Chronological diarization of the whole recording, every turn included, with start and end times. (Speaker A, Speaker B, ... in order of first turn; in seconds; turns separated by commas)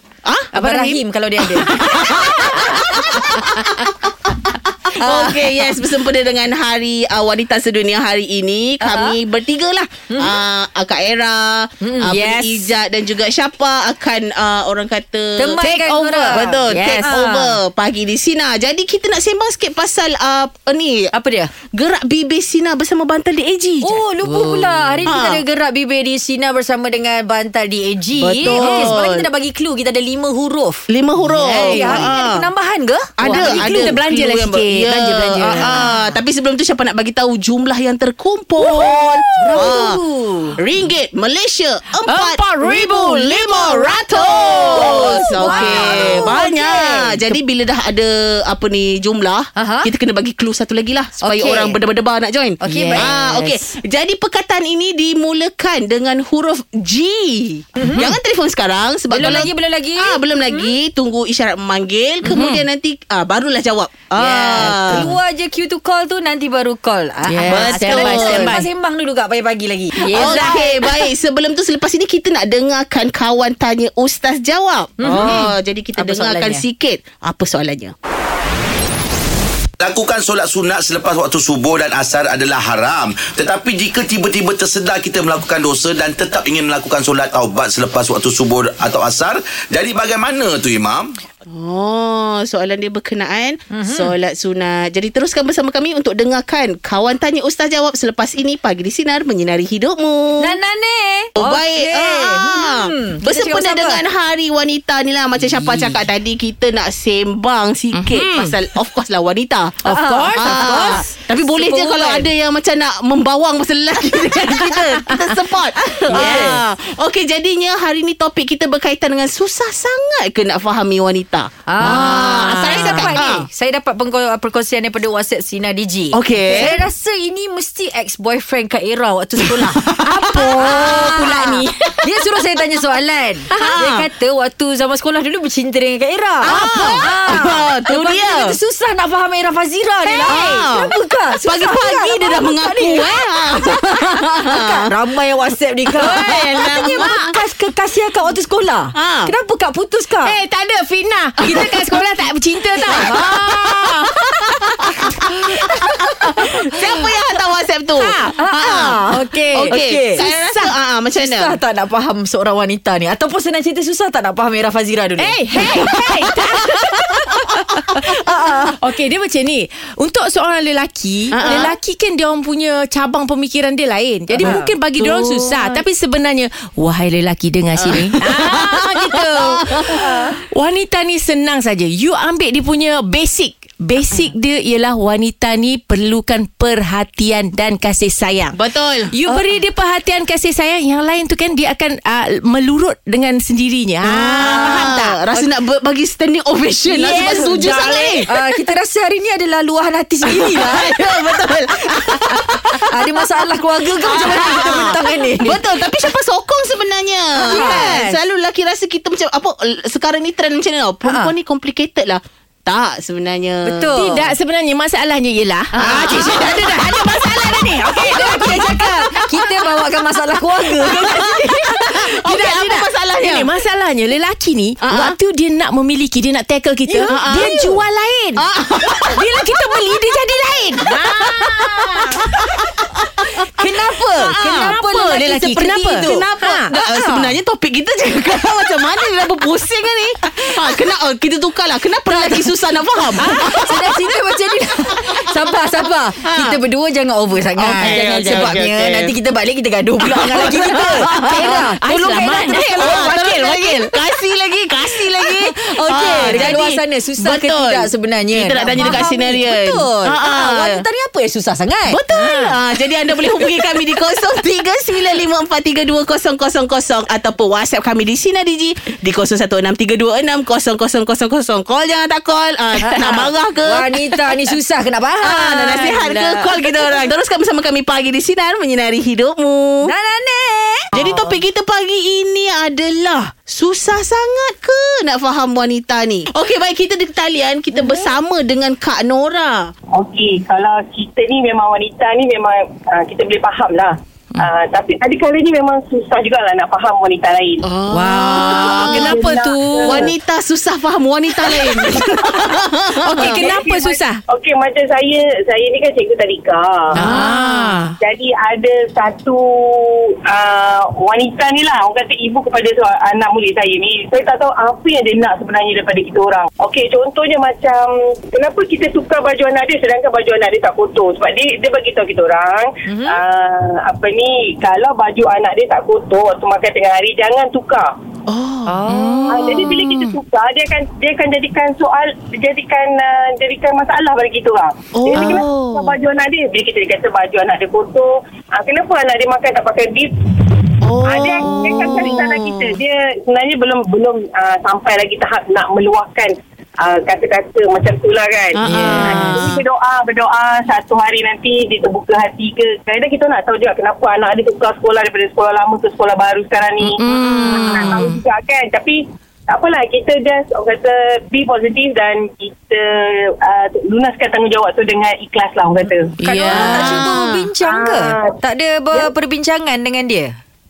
Speaker A: 0.2-0.5, Speaker B: 0.5-1.7, Speaker C: 0.6-1.0, Speaker A: 1.6-4.3, Speaker C: 1.8-3.8, Speaker A: 4.8-21.1, Speaker B: 5.0-5.7, Speaker B: 8.8-9.2, Speaker B: 10.1-10.4, Speaker B: 11.8-12.7, Speaker B: 15.4-17.5, Speaker C: 16.7-17.3, Speaker B: 21.1-21.5, Speaker A: 21.7-24.0, Speaker B: 23.8-30.8, Speaker C: 24.2-24.8, Speaker A: 25.0-25.4, Speaker A: 28.2-29.3, Speaker C: 28.5-29.0, Speaker A: 30.9-32.5, Speaker C: 31.2-32.1, Speaker B: 31.6-33.9, Speaker A: 33.2-40.0, Speaker C: 33.2-35.9, Speaker B: 35.5-36.1, Speaker B: 39.4-40.6, Speaker A: 40.6-65.1, Speaker C: 42.0-46.3, Speaker B: 44.6-47.2, Speaker B: 49.5-49.9, Speaker B: 51.2-51.8, Speaker B: 52.6-53.1, Speaker C: 52.7-53.5, Speaker B: 57.8-58.1, Speaker B: 59.1-60.7, Speaker C: 62.2-62.6, Speaker B: 64.1-70.7, Speaker C: 67.2-68.6, Speaker A: 67.5-68.6, Speaker C: 70.0-70.7, Speaker A: 70.1-77.9, Speaker B: 75.0-76.6, Speaker D: 79.8-91.1, Speaker A: 91.5-100.6, Speaker B: 93.7-94.1, Speaker B: 100.4-104.0, Speaker A: 101.3-109.8, Speaker B: 105.4-106.0, Speaker C: 107.9-108.5, Speaker C: 109.8-111.0, Speaker B: 109.9-112.3, Speaker A: 110.3-123.5, Speaker C: 115.1-115.4, Speaker B: 116.1-116.6, Speaker C: 116.1-116.5, Speaker B: 121.7-129.8, Speaker A: 126.1-126.8, Speaker A: 129.4-131.7, Speaker C: 129.9-131.6, Speaker B: 130.6-150.3, Speaker C: 133.5-133.8, Speaker A: 133.5-134.1, Speaker A: 136.4-138.6, Speaker C: 136.5-137.0, Speaker C: 140.1-140.5, Speaker A: 140.2-140.9, Speaker A: 141.4-144.8, Speaker A: 146.0-147.2, Speaker C: 146.9-147.3, Speaker A: 148.9-149.3, Speaker C: 150.2-155.8, Speaker A: 151.4-151.9, Speaker A: 152.9-153.9, Speaker A: 156.3-159.0, Speaker C: 158.0-158.3, Speaker B: 158.4-160.2, Speaker C: 159.1-160.7, Speaker A: 159.5-161.6, Speaker B: 161.2-165.7, Speaker C: 165.2-167.0, Speaker B: 167.5-168.8, Speaker C: 167.8-168.1, Speaker C: 168.8-188.6, Speaker A: 171.3-171.7, Speaker A: 174.4-175.8, Speaker B: 174.4-174.7, Speaker A: 177.8-180.2, Speaker A: 188.6-189.1, Speaker C: 189.1-195.4, Speaker A: 194.0-198.3, Speaker C: 196.9-198.3, Speaker B: 198.3-201.0, Speaker A: 200.2-202.8, Speaker B: 202.8-205.6, Speaker A: 204.0-213.9, Speaker B: 207.4-208.2, Speaker C: 207.5-207.8, Speaker B: 211.0-211.3, Speaker B: 213.7-214.3, Speaker C: 213.9-218.6, Speaker A: 215.8-218.8, Speaker B: 215.8-216.3, Speaker B: 218.1-221.3, Speaker A: 220.9-223.5, Speaker C: 220.9-232.3, Speaker A: 224.8-225.2, Speaker B: 226.9-227.5, Speaker A: 227.1-227.7, Speaker A: 228.3-229.2, Speaker B: 233.6-236.2, Speaker A: 234.0-243.8, Speaker C: 234.3-236.7, Speaker B: 236.7-237.3, Speaker C: 243.2-243.4, Speaker B: 243.3-253.1, Speaker A: 246.2-246.6, Speaker A: 247.6-249.1, Speaker A: 250.1-251.6, Speaker C: 251.3-253.9, Speaker A: 252.5-260.8, Speaker B: 255.2-262.0, Speaker C: 256.1-256.5, Speaker A: 261.9-273.9, Speaker C: 262.1-262.5, Speaker B: 272.8-276.7, Speaker A: 275.2-279.9, Speaker B: 279.8-281.3, Speaker A: 280.9-289.7, Speaker E: 289.9-297.6, Speaker A: 297.6-299.2, Speaker B: 297.9-298.5, Speaker C: 298.0-300.1, Speaker E: 298.5-300.1, Speaker A: 299.8-303.5, Speaker C: 303.1-304.2, Speaker E: 303.2-307.0, Speaker C: 306.9-307.9, Speaker A: 307.0-307.8, Speaker E: 308.0-327.9, Speaker B: 322.9-323.2, Speaker A: 328.3-328.8, Speaker B: 328.7-329.3, Speaker C: 328.9-330.0, Speaker E: 329.3-340.1, Speaker A: 334.9-335.9, Speaker A: 340.8-342.8, Speaker E: 341.1-357.0, Speaker A: 348.6-349.6, Speaker C: 348.6-349.6, Speaker C: 356.8-358.2, Speaker A: 357.0-357.9, Speaker E: 357.5-359.0, Speaker E: 359.5-366.1, Speaker C: 366.2-367.1, Speaker B: 366.2-370.3, Speaker A: 366.7-367.2, Speaker E: 367.6-368.3